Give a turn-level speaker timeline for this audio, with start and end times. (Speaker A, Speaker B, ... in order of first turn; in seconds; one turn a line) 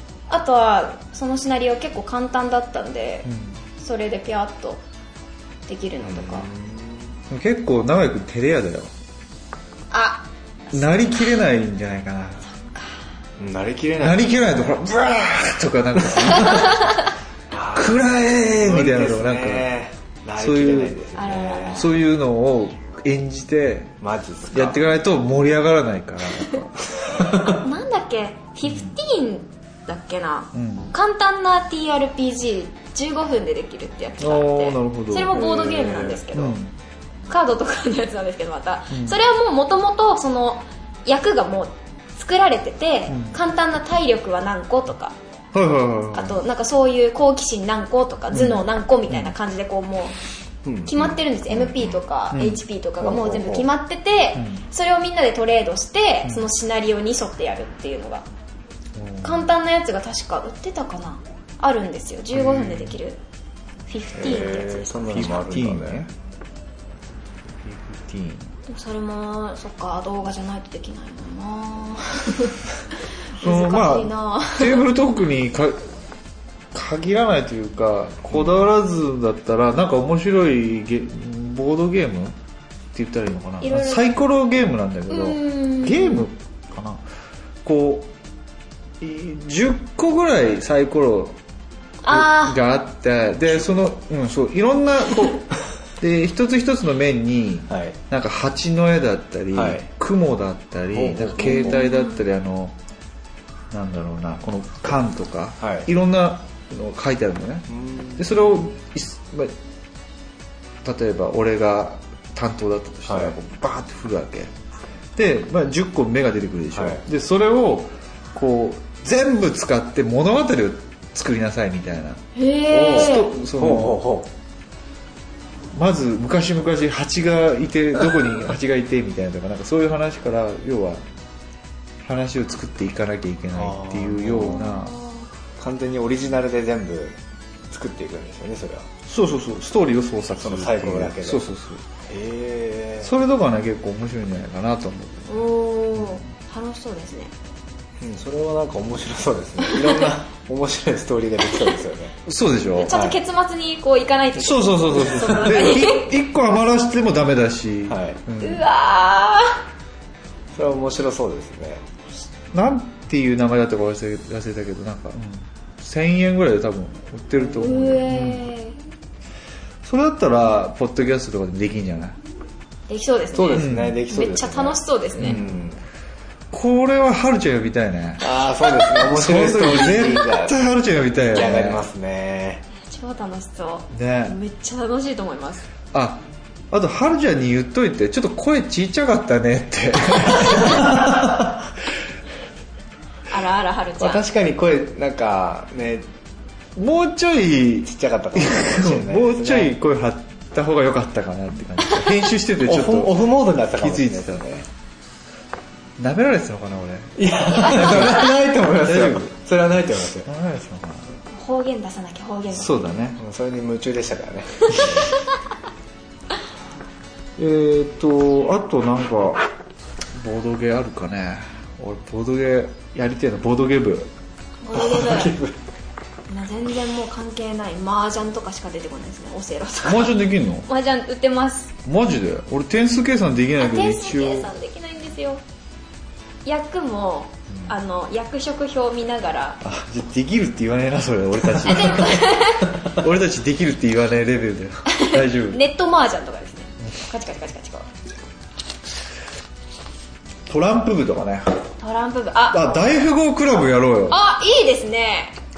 Speaker A: 0.3-4.8
Speaker B: 3.2-3.6
Speaker A: 5.7-6.5
Speaker C: 6.0-7.1
Speaker B: 7.3-8.9
Speaker A: 9.9-10.9
Speaker B: 10.7-12.4
Speaker A: 12.5-13.0
Speaker C: 13.4-14.8
Speaker B: 14.0-16.9
Speaker C: 16.0-16.3
Speaker A: 16.4-17.0
Speaker C: 17.5-21.9
Speaker B: 17.8-19.7
Speaker B: 20.4-21.0
Speaker A: 21.1-21.9
Speaker B: 21.7-24.0
Speaker C: 24.0-24.8
Speaker B: 24.5-27.5
Speaker C: 27.1-27.5
Speaker A: 27.4-36.6
Speaker B: 28.7-28.9
Speaker B: 30.5-30.9
Speaker B: 34.2-35.7
Speaker C: 35.3-36.2
Speaker B: 36.3-36.7
Speaker A: 37.3-45.2
Speaker B: 38.9-39.2
Speaker B: 43.1-43.4
Speaker B: 45.5-46.4
Speaker A: 46.1-50.1
Speaker B: 48.3-49.4
Speaker C: 50.6-51.9
Speaker A: 50.9-58.2
Speaker B: 52.3-52.6
Speaker C: 53.0-53.7
Speaker B: 54.4-54.6
Speaker B: 56.2-56.5
Speaker B: 59.0-59.5
Speaker A: 59.2-63.2
Speaker B: 62.3-63.0
Speaker A: 63.9-65.4
Speaker C: 64.1-66.1
Speaker B: 65.1-66.1
Speaker B: 67.6-68.5
Speaker A: 68.7-72.6
Speaker A: 73.3-74.8
Speaker B: 73.4-75.9
Speaker B: 76.7-82.4
Speaker B: 82.9-87.0
Speaker A: 83.6-84.1
Speaker A: 85.1-86.3
Speaker B: 87.6-88.1
Speaker B: 89.0-91.4
Speaker A: 92.0-92.6
Speaker B: 92.1-102.8
Speaker C: 97.7-98.0
Speaker C: 99.5-99.9
Speaker C: 100.9-101.8
Speaker A: 101.4-102.2
Speaker B: 103.7-109.5
Speaker C: 105.6-105.9
Speaker C: 107.7-108.6
Speaker B: 110.8-114.5
Speaker C: 113.1-113.3
Speaker B: 115.2-124.0
Speaker C: 116.7-117.0
Speaker A: 122.4-123.3
Speaker C: 122.7-124.3
Speaker B: 125.7-131.0
Speaker B: 132.0-135.0
Speaker C: 133.5-134.7
Speaker A: 134.6-135.3
Speaker C: 135.6-137.2
Speaker C: 137.7-138.9
Speaker B: 139.1-141.8
Speaker C: 140.4-141.4
Speaker C: 142.1-143.1
Speaker B: 143.0-145.4
Speaker A: 145.3-147.3
Speaker C: 148.0-152.2
Speaker B: 152.3-153.0
Speaker A: 152.8-156.1
Speaker C: 152.9-153.2
Speaker B: 154.4-158.7
Speaker C: 155.0-155.6
Speaker C: 157.9-158.2
Speaker A: 158.4-159.6
Speaker C: 160.5-161.8
Speaker B: 162.5-168.5
Speaker A: 167.6-168.8
Speaker B: 169.8-172.2
Speaker A: 172.9-175.4
Speaker C: 173.3-175.8
Speaker B: 173.5-174.0
Speaker B: 175.2-175.4
Speaker B: 176.5-178.2
Speaker C: 178.2-180.6
Speaker B: 178.9-181.8
Speaker C: 181.2-182.7
Speaker A: 182.8-185.7
Speaker B: 183.9-184.4
Speaker B: 185.9-191.4
Speaker A: 193.3-194.2
Speaker C: 194.0-196.1
Speaker B: 196.8-204.6
Speaker C: 197.8-199.8
Speaker C: 202.7-204.7
Speaker B: 206.0-208.3
Speaker C: 207.2-210.3
Speaker A: 207.7-208.0
Speaker B: 208.8-209.3
Speaker B: 210.2-211.2
Speaker A: 211.3-213.0
Speaker B: 212.5-213.2
Speaker C: 213.2-215.2
Speaker B: 217.4-219.4
Speaker B: 220.2-224.1
Speaker A: 224.6-225.4
Speaker C: 224.7-225.6
Speaker A: 226.3-231.7
Speaker B: 229.8-230.7
Speaker B: 231.8-234.5
Speaker A: 233.6-235.4
Speaker A: 236.4-239.6
Speaker B: 239.6-245.6
Speaker A: 241.7-242.7
Speaker A: 244.9-247.9
Speaker B: 250.5-251.6
Speaker A: 251.8-252.8
Speaker B: 252.5-254.2
Speaker A: 254.1-255.4